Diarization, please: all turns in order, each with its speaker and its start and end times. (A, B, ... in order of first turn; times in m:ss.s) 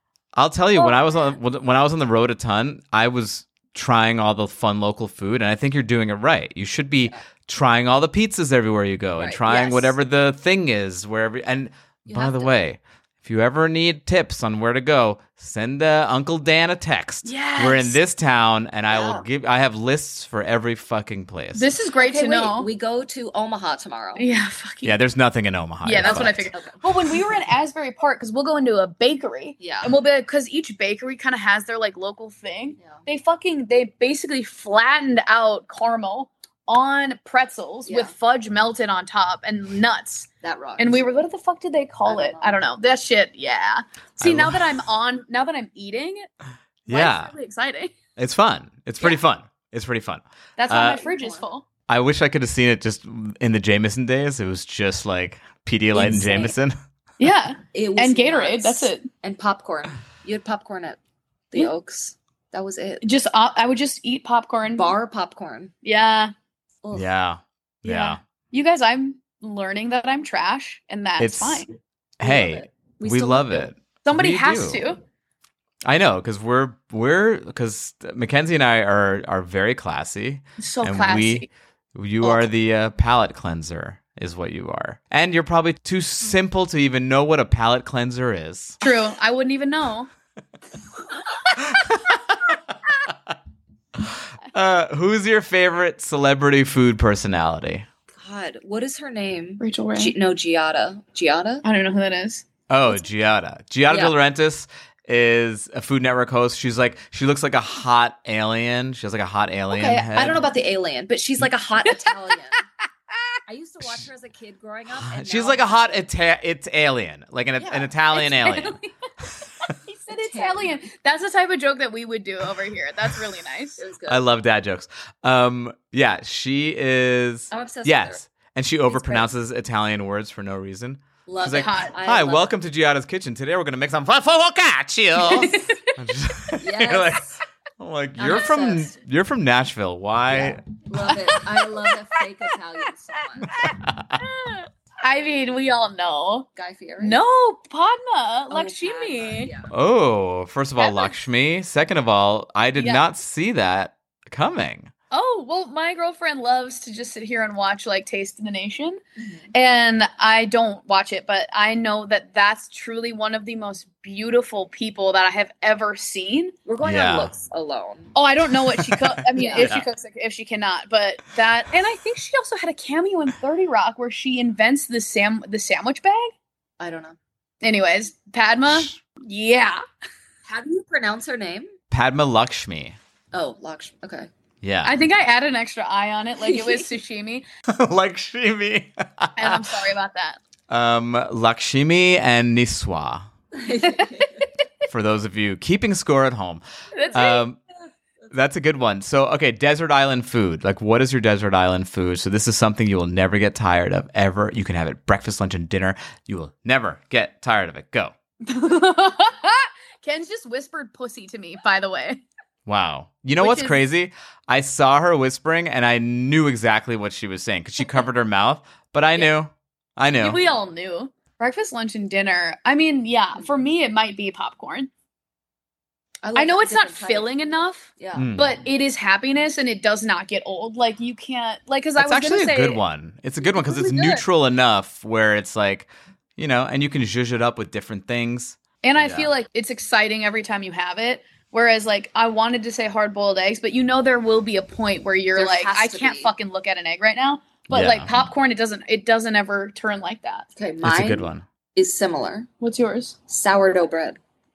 0:00.3-0:21.7 A
0:09.2-0:09.9 B
0:12.1-0:12.5 B
0:17.2-0:18.0 C
0:18.9-0:19.2 B
0:21.5-0:22.7 C
0:22.0-0:24.2 B
0:24.2-0:25.0 C
0:24.8-0:26.5 A
0:25.8-0:46.2 C
0:26.0-0:26.8 B
0:29.6-0:29.9 B
0:37.8-0:38.1 B
0:40.4-0:41.0 B
0:42.0-0:42.6 B
0:44.2-0:44.6 A
0:46.9-0:47.9 C
0:46.9-0:47.3 A
0:48.2-0:51.0 A
0:50.6-0:51.6 C
0:51.0-0:51.4 B
0:51.9-0:56.8 A
0:55.9-0:56.5 B
0:57.2-0:59.1 C
0:57.7-1:01.0 B
1:01.5-1:03.0 B
1:03.0-1:04.9 C
1:04.7-1:05.7 B
1:05.8-1:06.3 C
1:06.9-1:08.2 A
1:07.8-1:11.7 C
1:11.2-1:11.6 A
1:12.2-1:14.8 A
1:12.2-1:13.7 B
1:14.0-1:15.0 C
1:15.8-1:28.8 A
1:20.6-1:21.5 C
1:28.8-1:30.1 C
1:31.6-1:32.7 A
1:34.0-1:37.8 A
1:38.2-1:41.6 B
1:39.6-1:40.1 C
1:41.6-1:42.4 C
1:42.7-1:50.4 A
1:49.7-1:52.6 B
1:53.5-1:56.0 B
1:55.0-1:58.8 A
1:57.6-1:57.9 B
1:58.1-1:58.9 C
1:59.7-2:03.8 C
2:00.1-2:00.7 B
2:03.8-2:04.2 B
2:04.1-2:20.6 A
2:07.5-2:08.2 B
2:08.9-2:09.3 B
2:11.2-2:12.5 B
2:11.4-2:11.9 C
2:15.2-2:15.9 C
2:16.6-2:17.3 B
2:18.2-2:18.9 B
2:20.4-2:23.5 B
2:21.3-2:21.7 C
2:23.6-2:24.2 A
2:23.7-2:26.5 C
2:26.6-2:27.2 B
2:27.0-2:29.5 C
2:28.5-2:29.7 B
2:29.7-2:34.9 A
2:30.8-2:31.1 C
2:32.8-2:33.0 C
2:35.1-2:39.0 C
2:39.2-2:39.5 B
2:39.5-2:46.5 C
2:46.6-2:48.1 B
2:46.8-2:47.3 A
2:48.1-2:56.3 C
2:48.8-2:49.9 A
2:49.4-2:49.7 B
2:56.8-2:57.2 B
2:57.6-2:59.8 C
2:58.7-2:58.9 A
3:00.4-3:01.7 B
3:01.9-3:03.0 A
3:03.3-3:04.3 B
3:04.6-3:04.9 A
3:04.8-3:07.4 C
3:06.4-3:06.9 B
3:07.7-3:09.7 A
3:09.4-3:10.4 C
3:10.7-3:13.3 A
3:13.5-3:14.4 B
3:14.0-3:14.2 C
3:14.9-3:17.6 A
3:16.9-3:17.4 C
3:18.3-3:28.1 A
3:28.4-3:32.2 C
3:32.6-3:40.4 A
3:33.4-3:33.8 C
3:40.2-3:44.9 C
3:46.2-3:47.3 B
3:46.3-3:52.8 C
3:48.0-3:48.3 B
3:48.2-3:48.6 A
3:52.0-3:59.3 A
3:53.9-3:54.2 B
3:58.8-4:10.5 C
4:05.4-4:06.3 B
4:07.7-4:08.2 A
4:10.6-4:12.5 B
4:10.8-4:11.4 A
4:12.6-4:13.2 C
4:13.3-4:14.2 B